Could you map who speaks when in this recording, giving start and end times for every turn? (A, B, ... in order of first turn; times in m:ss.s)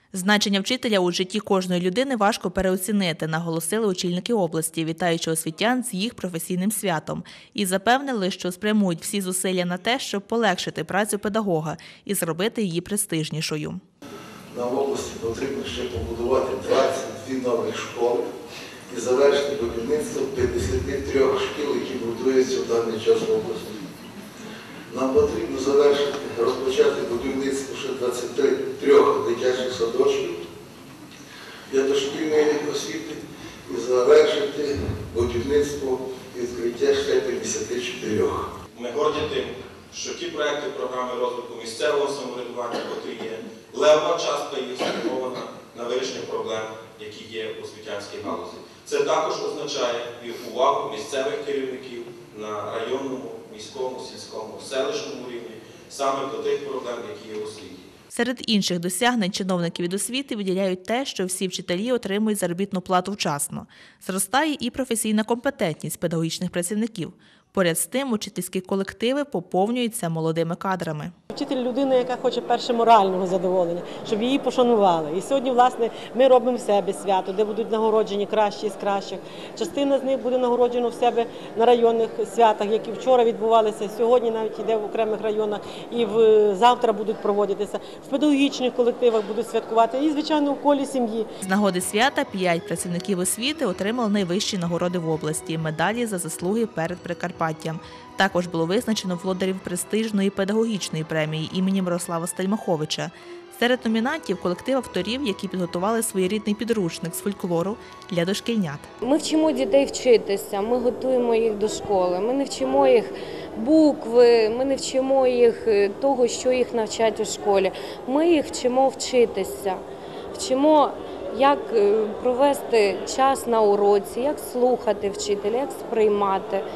0:00.1-0:13.8 A
0:14.5-0:18.2 B
0:18.9-0:23.7 B
0:24.9-0:30.4 B
0:31.7-0:38.5 B
0:38.7-0:57.9 C
0:58.1-1:11.1 A
1:11.3-1:31.3 D
1:31.4-1:48.9 A
1:49.0-1:59.8 E
2:00.3-2:06.6 E